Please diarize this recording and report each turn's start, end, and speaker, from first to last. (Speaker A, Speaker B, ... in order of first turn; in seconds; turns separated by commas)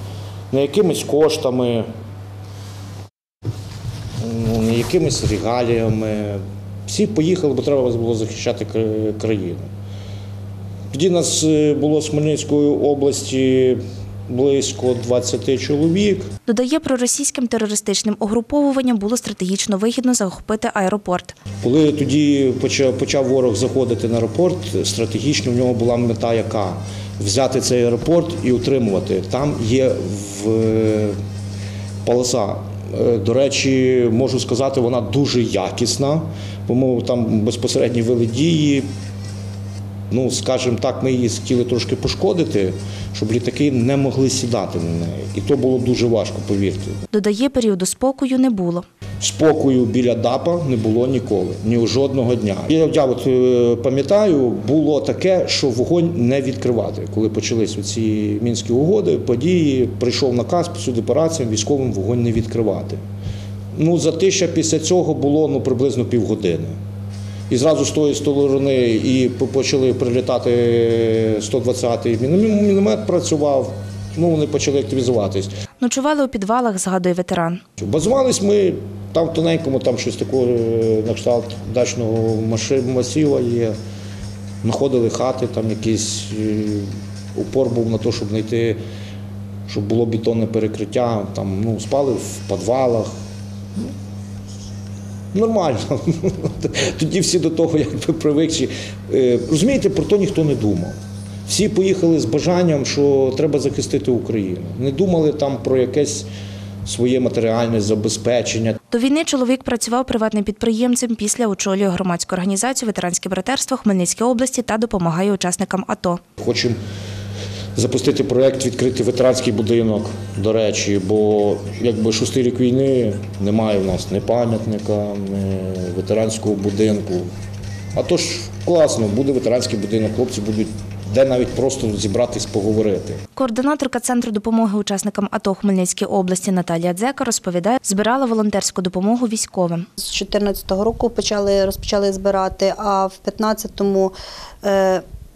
Speaker A: 0.5-1.9, Speaker A: 4.2-9.7, Speaker A: 10.9-16.3, Speaker B: 16.5-21.3, Speaker A: 21.6-31.1, Speaker A: 32.0-38.9, Speaker A: 40.1-47.0, Speaker B: 47.1-48.8, Speaker A: 49.2-63.0, Speaker A: 63.7-66.8, Speaker A: 67.5-75.5, Speaker B: 75.8-77.6, Speaker A: 77.8-83.7, Speaker A: 84.6-88.8, Speaker A: 89.7-93.1, Speaker A: 95.3-100.9, Speaker A: 101.5-106.3, Speaker A: 106.8-108.8, Speaker B: 108.9-116.2, Speaker A: 116.4-116.8, Speaker A: 117.8-127.3, Speaker A: 127.9-133.2, Speaker B: 133.3-139.8, Speaker C: 140.0-145.0